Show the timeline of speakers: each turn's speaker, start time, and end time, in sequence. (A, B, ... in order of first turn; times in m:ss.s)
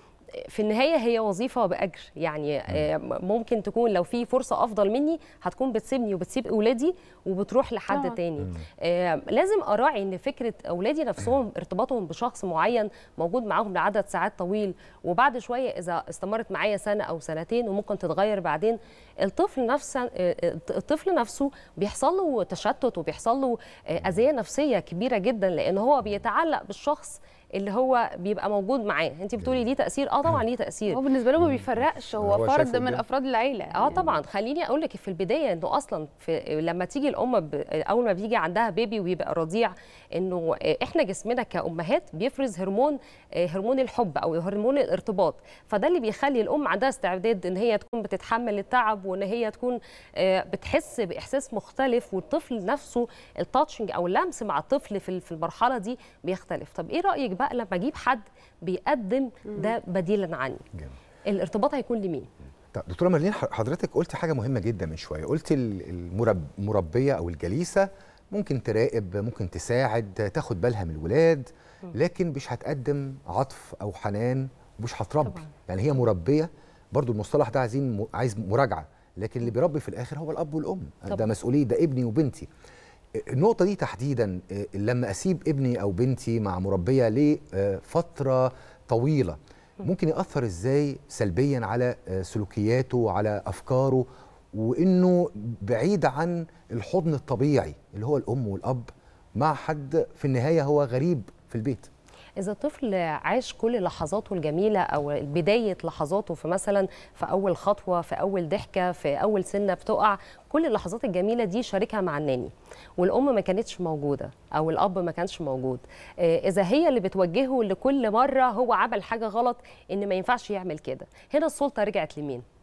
0:00.4-0:31.0 A
0:07.9-0:08.2 B
0:30.9-0:34.1 B
0:32.2-0:33.0 C
0:33.7-1:00.6 A
1:01.2-1:02.3 A
1:02.7-1:22.5 C
1:15.2-1:15.5 A
1:23.2-1:41.9 C
1:42.4-2:02.4 A